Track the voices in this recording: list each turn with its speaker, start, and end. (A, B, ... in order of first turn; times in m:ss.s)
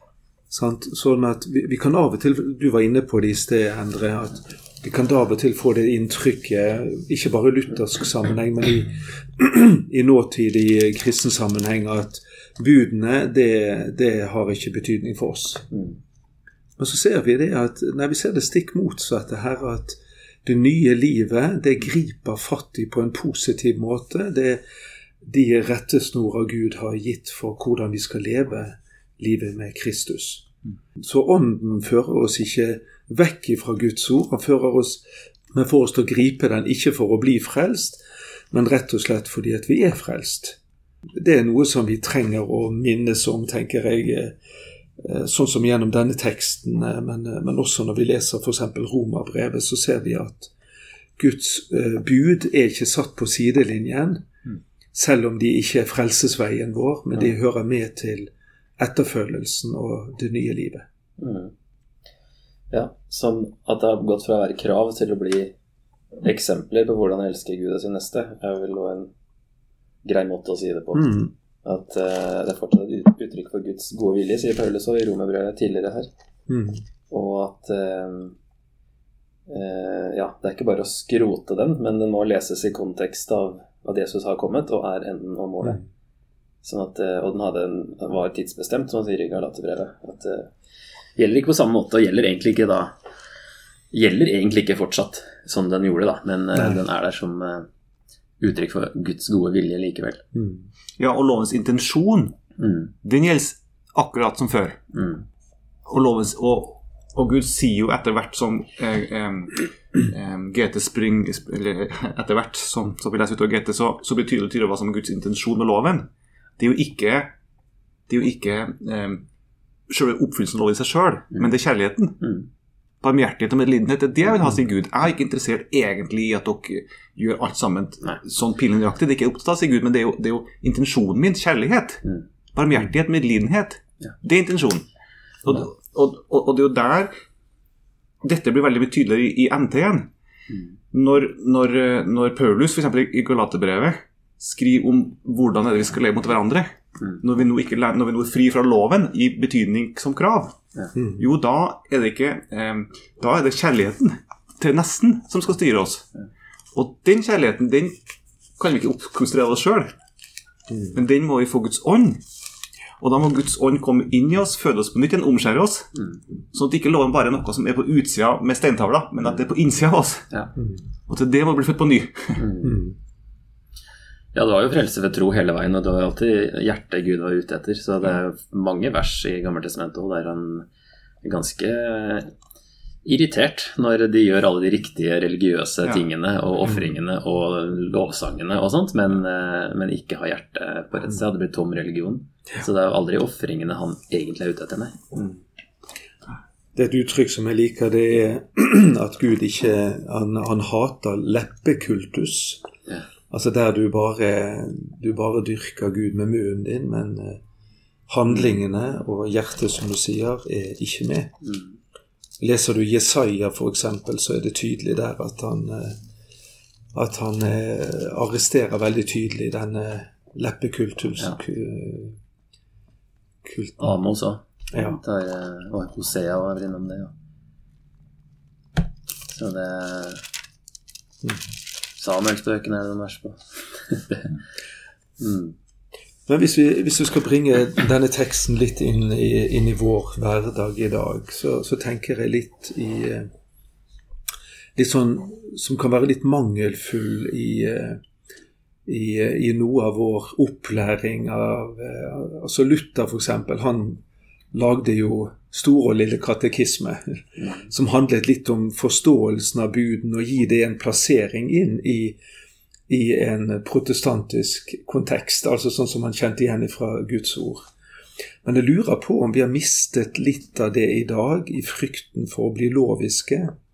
0:00.5-0:15.6 A
0:15.7-0:16.0 B
0:16.8-0:24.6 A
0:25.2-0:38.0 A
0:38.5-0:40.6 A
0:41.2-0:44.4 A
0:45.0-0:50.5 A
0:51.2-0:54.2 A
0:54.9-1:00.8 A
1:01.2-1:01.5 B
1:02.7-1:05.6 B
1:06.2-1:09.1 B
1:10.0-1:16.1 B
1:10.9-1:11.3 A
1:16.5-1:16.8 A
1:17.1-1:18.4 B
1:19.5-1:25.8 B
1:26.6-1:30.5 B
1:31.2-1:32.9 B
1:33.9-1:37.7 B
1:38.4-1:40.2 B
1:40.3-1:40.7 A
1:41.0-1:42.4 C
1:42.6-1:42.9 B
1:43.0-1:44.8 C
1:44.9-1:45.2 B
1:45.9-1:56.1 C
1:56.6-1:57.3 C
1:58.1-1:59.2 C
1:59.9-2:02.2 C
2:02.2-2:02.5 B
2:03.0-2:14.8 C
2:15.4-2:17.1 C
2:18.2-2:20.1 C
2:20.9-2:30.6 C
2:31.0-2:31.2 A
2:31.2-2:36.1 C
2:36.7-2:38.0 C
2:38.6-2:39.9 C
2:40.7-2:40.9 A
2:40.9-2:42.2 C
2:43.0-2:45.9 C
2:46.5-2:50.3 C
2:51.1-2:52.4 C
2:52.4-2:52.8 B
2:52.6-2:53.0 A
2:54.3-3:00.7 B
3:01.2-3:02.3 B
3:03.0-3:15.4 B
3:16.7-3:22.7 A
3:23.3-3:27.4 A
3:28.1-3:31.3 A
3:31.4-3:31.7 B
3:32.4-3:36.0 A
3:36.9-3:42.2 A
3:43.4-3:44.0 A
3:43.8-3:47.1 B
3:44.7-3:45.0 A
3:49.3-3:50.2 B
3:52.0-3:54.3 B
3:55.2-3:55.6 B
3:56.3-4:03.3 A
4:04.8-4:08.0 A
4:08.9-4:14.0 A
4:14.5-4:22.2 A
4:22.9-4:27.7 A
4:28.4-4:33.5 A